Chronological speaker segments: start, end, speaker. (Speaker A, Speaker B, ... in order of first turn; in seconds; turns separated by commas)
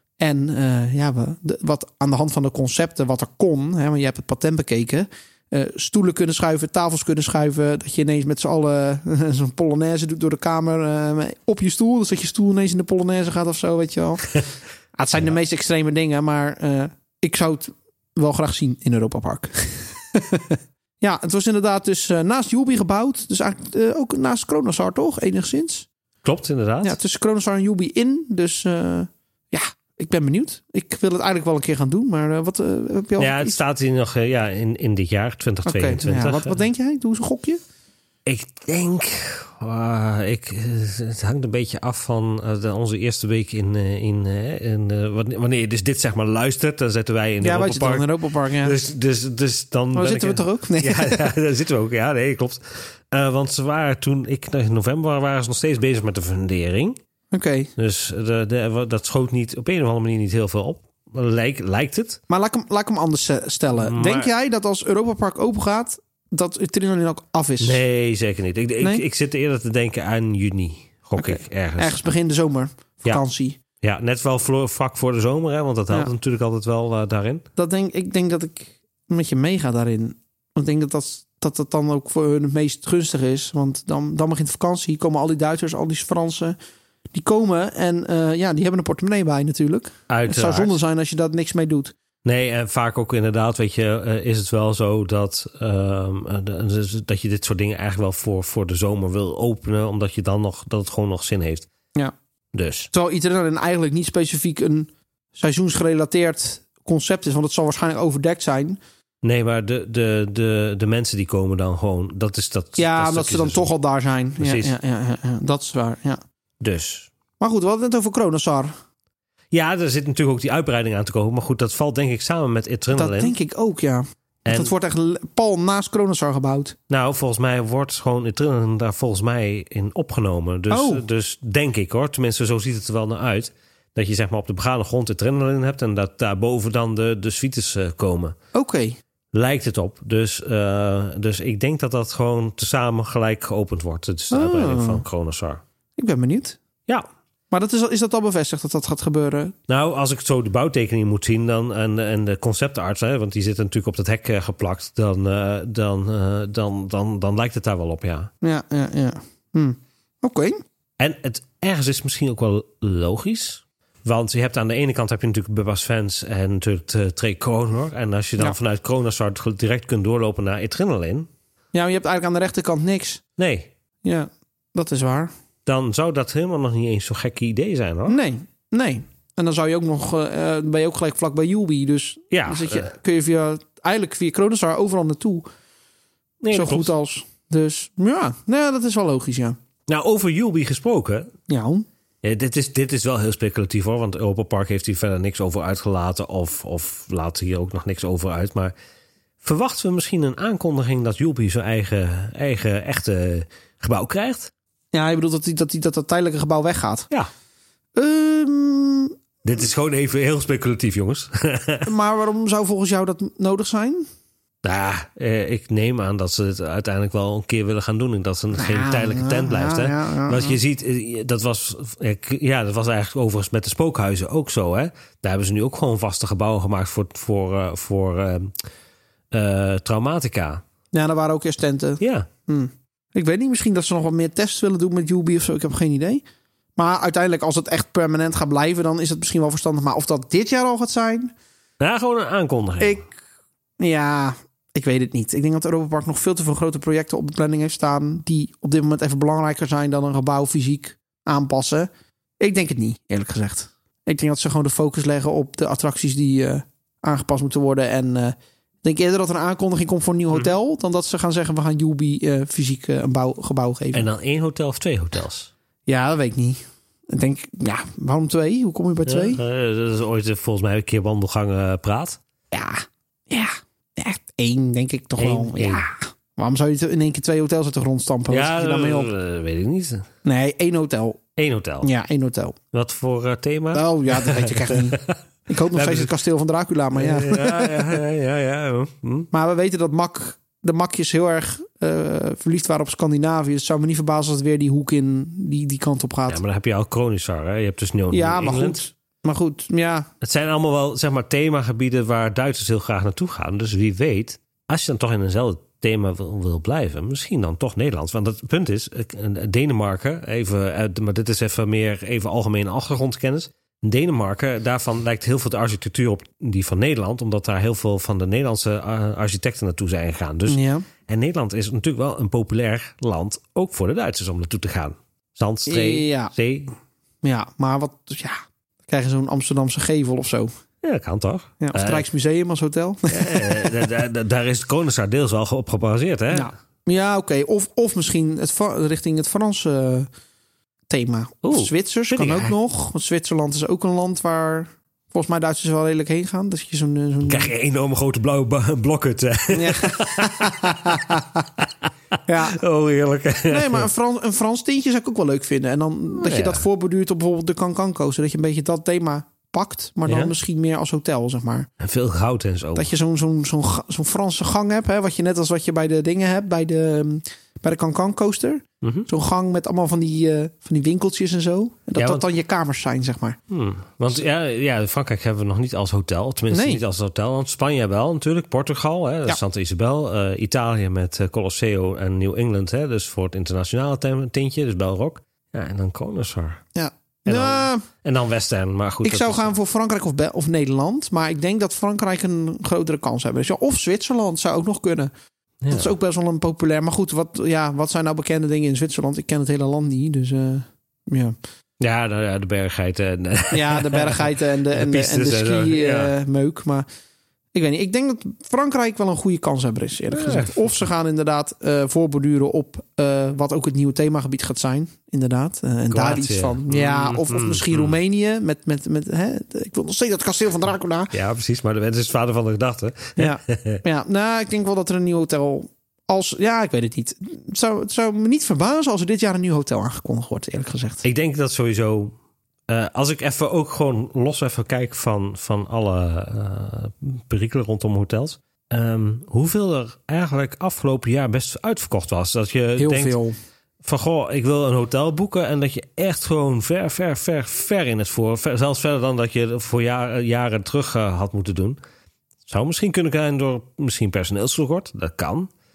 Speaker A: 0.2-14.4, Speaker A: 14.9-25.9, Speaker B: 26.2-27.0, Speaker A: 26.8-33.6, Speaker B: 33.2-36.6, Speaker A: 35.6-37.6, Speaker B: 38.2-57.0, Speaker A: 47.4-48.8, Speaker A: 49.9-51.3, Speaker A: 57.3-57.7, Speaker B: 57.8-62.2, Speaker A: 62.3-67.8, Speaker B: 63.8-64.3, Speaker B: 67.6-72.0, Speaker A: 71.2-73.6, Speaker B: 73.8-77.4, Speaker A: 77.5-86.5, Speaker A: 87.1-91.9, Speaker B: 90.1-90.8, Speaker B: 92.2-101.7, Speaker B: 102.5-102.9, Speaker A: 102.9-108.8, Speaker B: 109.2-113.7, Speaker A: 112.8-116.2, Speaker B: 114.4-114.7, Speaker B: 116.6-117.1, Speaker A: 117.4-118.7, Speaker B: 119.5-123.3, Speaker A: 122.9-126.8, Speaker B: 124.4-124.7, Speaker B: 126.9-138.3, Speaker A: 130.7-131.0, Speaker A: 138.5-139.0, Speaker B: 139.3-145.6, Speaker A: 144.3-145.0, Speaker A: 146.0-146.6, Speaker A: 147.5-149.5, Speaker B: 149.7-158.3, Speaker A: 158.4-160.6, Speaker B: 161.0-171.3, Speaker A: 171.7-173.2, Speaker B: 173.4-173.7, Speaker A: 174.0-175.3, Speaker B: 175.7-178.2, Speaker A: 178.1-185.5, Speaker B: 182.3-182.9, Speaker B: 186.4-186.9, Speaker A: 186.5-189.6, Speaker B: 189.9-191.3, Speaker A: 191.5-191.9, Speaker B: 192.2-198.7, Speaker B: 199.4-204.5, Speaker A: 204.9-207.1, Speaker A: 208.0-209.1, Speaker B: 209.4-211.9, Speaker A: 211.8-214.1, Speaker B: 214.6-228.6, Speaker A: 218.5-220.6, Speaker B: 229.3-230.6, Speaker A: 230.9-236.2, Speaker B: 232.0-232.3, Speaker A: 236.8-241.3, Speaker B: 241.8-243.0, Speaker A: 242.8-243.1, Speaker A: 243.8-251.9, Speaker A: 252.4-264.1, Speaker B: 263.9-265.5, Speaker A: 265.9-269.4, Speaker B: 269.1-272.2, Speaker A: 272.5-279.1, Speaker B: 275.2-275.8, Speaker B: 278.3-280.1, Speaker A: 280.2-281.2, Speaker B: 281.4-281.9, Speaker A: 281.8-282.6, Speaker B: 282.7-285.2, Speaker A: 283.7-288.0, Speaker B: 285.7-286.1, Speaker B: 286.9-289.3, Speaker A: 289.3-296.4, Speaker B: 296.3-298.8, Speaker A: 298.1-300.1, Speaker B: 300.2-326.7, Speaker A: 320.5-320.9, Speaker A: 325.7-326.3, Speaker A: 327.2-330.5, Speaker B: 330.8-332.0, Speaker A: 331.6-333.8, Speaker B: 333.1-336.5, Speaker A: 336.3-340.1, Speaker A: 340.9-347.5, Speaker B: 341.4-342.5, Speaker B: 347.2-351.9, Speaker A: 349.5-351.5, Speaker A: 352.2-352.6, Speaker B: 352.5-353.9, Speaker A: 353.5-361.7, Speaker B: 356.1-356.6, Speaker B: 360.1-360.3, Speaker B: 361.8-362.9, Speaker A: 362.7-373.4, Speaker B: 368.8-369.1, Speaker B: 372.0-372.2, Speaker B: 373.5-386.6, Speaker A: 376.5-376.8, Speaker A: 386.7-387.9, Speaker B: 387.2-389.5, Speaker A: 389.0-395.1, Speaker B: 395.6-395.9, Speaker A: 395.7-401.3, Speaker B: 401.8-406.1, Speaker A: 403.5-406.8, Speaker A: 407.5-421.1, Speaker B: 410.1-410.8, Speaker B: 415.9-418.0, Speaker B: 421.1-423.8, Speaker A: 423.2-431.0, Speaker B: 431.0-432.1, Speaker B: 432.7-443.2, Speaker A: 442.8-443.4, Speaker B: 443.8-451.8, Speaker B: 452.5-455.5